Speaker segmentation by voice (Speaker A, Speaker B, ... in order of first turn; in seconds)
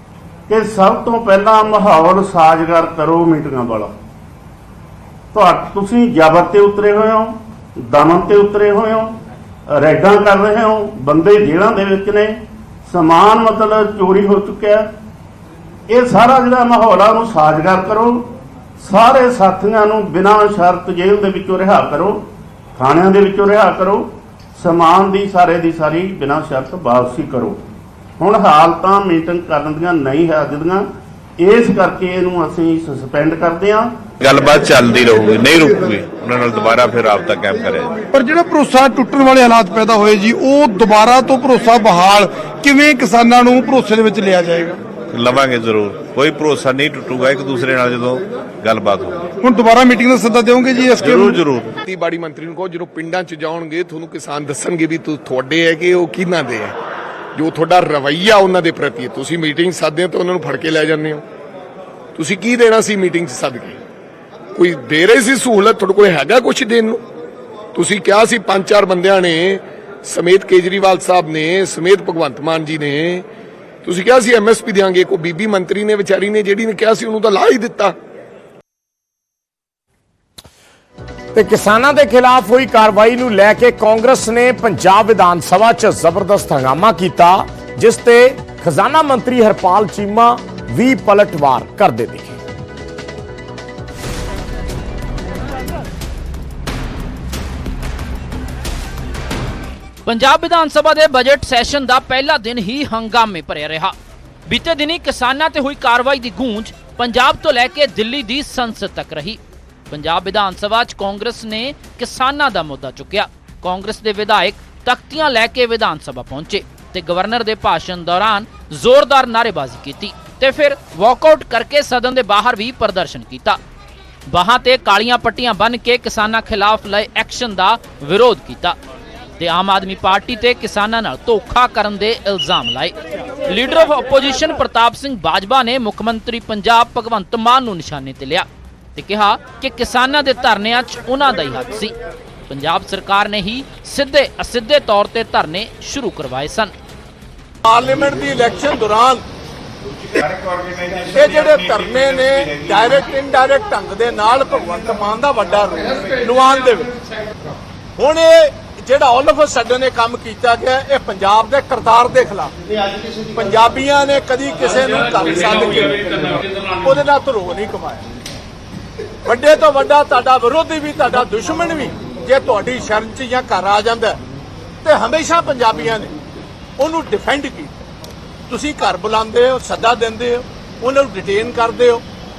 Speaker A: 0.5-3.9, 5.3-9.2, 9.7-14.9, 15.9-22.2, 22.8-27.6, 28.2-30.9, 31.4-34.0
Speaker B: 34.2-37.9, 45.1-49.2, 51.3-51.7
Speaker C: 38.1-44.8, 49.4-51.4
Speaker D: 51.8-56.8, 57.4-61.2, 62.1-63.8, 64.5-67.0, 67.7-73.2, 73.8-77.9
Speaker E: 81.3-92.4
Speaker F: 100.0-103.9, 104.5-109.4, 109.9-123.6, 124.3-128.8, 129.4-141.9, 142.5-146.7
Speaker G: 147.6-149.2, 151.0-156.9, 158.0-162.5, 163.3-168.0, 169.2-174.2, 174.8-176.1, 176.8-177.7, 178.5-182.0